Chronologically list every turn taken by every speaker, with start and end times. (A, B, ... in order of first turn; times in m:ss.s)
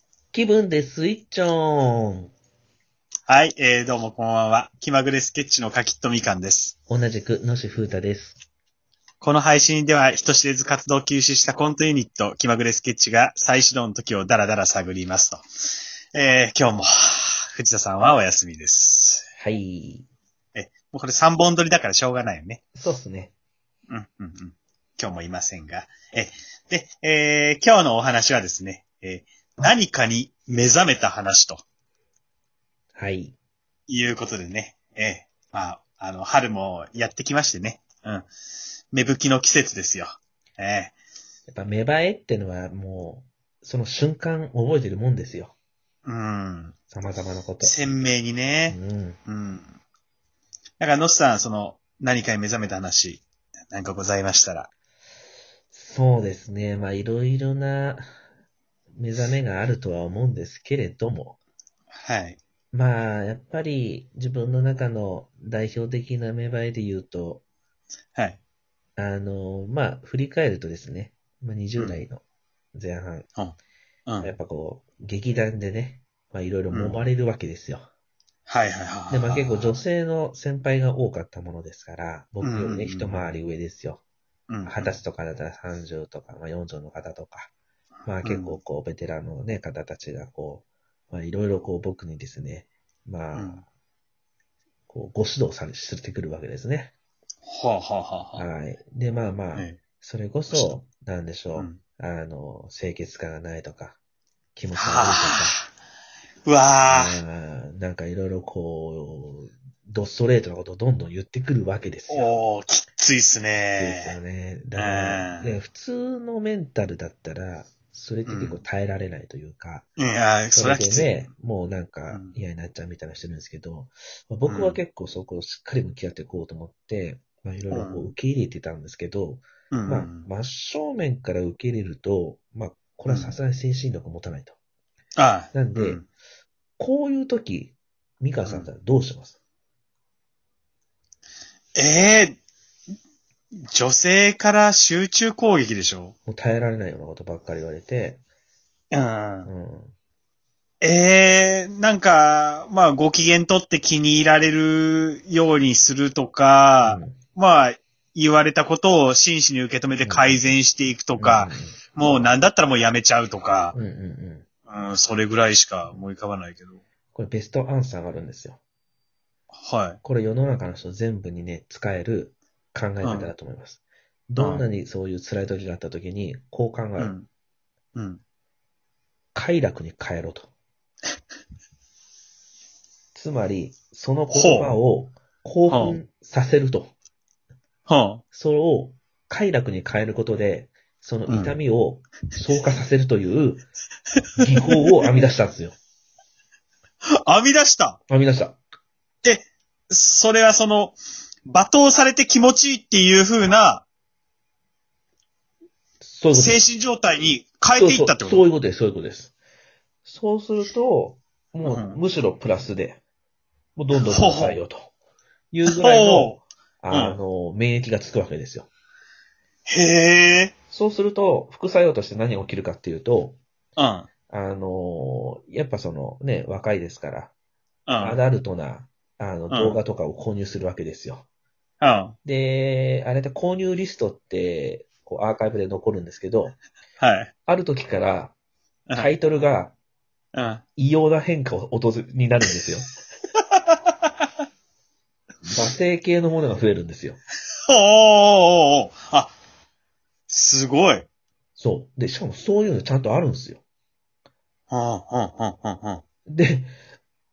0:00.3-0:02.3 A
0:03.3-0:06.7 B
0:06.9-0:08.4 A
0:09.2-0:15.4 B
0:16.1-0:19.2 B
0:19.4-0:20.1 A
0:20.5-0:22.6 B
0:22.8-0:23.3 A
0:23.9-0:31.6 B
0:32.9-0:33.3 A
0:33.9-0:38.3 B
0:38.9-0:40.9 B
0:41.5-0:45.5 A
0:46.0-0:46.7 B
0:46.9-0:47.8 A
0:47.6-0:49.7 B
0:48.7-0:49.2 A
0:50.8-0:54.7 B
0:55.7-0:58.0 A
0:58.9-1:01.4 A
1:02.0-1:02.4 B
1:02.7-1:07.4 A
1:09.0-1:12.2 A
1:12.7-1:13.3 A
1:14.0-1:14.3 B
1:14.2-1:17.9 A
1:16.7-1:17.0 B
1:18.5-1:19.8 B
1:19.1-1:24.0 A
1:22.4-1:23.2 B
1:24.5-1:25.0 B
1:24.6-1:27.5 A
1:28.0-1:33.6 A
1:28.2-1:28.6 B
1:33.3-1:33.6 B
1:34.9-1:36.9 A
1:37.4-1:38.4 B
1:38.4-1:44.0 A
1:40.5-1:40.8 B
1:44.6-1:45.6 A
1:44.8-1:45.5 B
1:46.4-1:47.2 B
1:46.9-1:52.3 A
1:52.1-1:54.2 B
1:53.8-1:59.9 A
1:54.8-1:55.6 B
1:58.2-1:58.6 B
2:00.0-2:01.2 B
2:00.5-2:14.6 A
2:02.1-2:02.4 B
2:04.5-2:04.8 B
2:07.7-2:08.1 B
2:09.7-2:10.3 B
2:13.1-2:13.4 B
2:15.2-2:16.0 B
2:15.5-2:16.0 A
2:16.8-2:19.4 A
2:21.7-2:22.4 B
2:23.7-2:26.1 B
2:26.3-2:28.2 A
2:28.9-2:29.5 B
2:29.4-2:29.9 A
2:30.8-2:43.8 B
2:36.8-2:37.2 A
2:40.0-2:40.4 A
2:41.2-2:41.8 A
2:43.7-2:44.4 A
2:44.7-2:46.8 B
2:47.1-2:48.6 A
2:49.6-2:50.0 B
2:50.0-2:57.1 A
2:53.0-2:53.3 B
2:54.4-2:54.6 B
2:57.0-2:57.3 B
2:57.9-2:58.2 B
2:59.3-3:00.5 A
3:03.1-3:06.9 A
3:04.3-3:04.8 B
3:05.7-3:06.0 B
3:07.8-3:08.2 B
3:08.3-3:13.7 A
3:11.3-3:11.6 B
3:14.4-3:15.8 A
3:17.2-3:18.0 B
3:18.1-3:18.6 A
3:19.2-3:21.0 B
3:21.5-3:23.8 B
3:26.0-3:26.6 A
3:26.3-3:28.5 B
3:27.8-3:29.3 A
3:30.0-3:33.0 A
3:31.6-3:32.0 B
3:33.8-3:34.9 A
3:33.9-3:34.6 B
3:35.5-3:38.7 A
3:35.6-3:37.2 B
3:39.7-3:40.5 B
3:40.7-3:43.4 A
3:43.8-3:44.1 B
3:44.3-3:47.3 A
3:47.8-3:48.2 B
3:48.0-3:51.3 A
3:49.5-3:49.8 B
3:51.8-3:52.1 B
3:52.2-3:56.6 A
3:57.0-3:57.3 B
3:57.5-3:58.3 A
3:58.9-3:59.1 B
3:58.9-3:59.7 A
4:00.3-4:00.6 B
4:00.8-4:02.9 A
4:05.5-4:07.2 A
4:07.7-4:09.3 B
4:10.3-4:11.0 B
4:11.6-4:13.6 A
4:14.7-4:16.0 B
4:16.3-4:16.7 A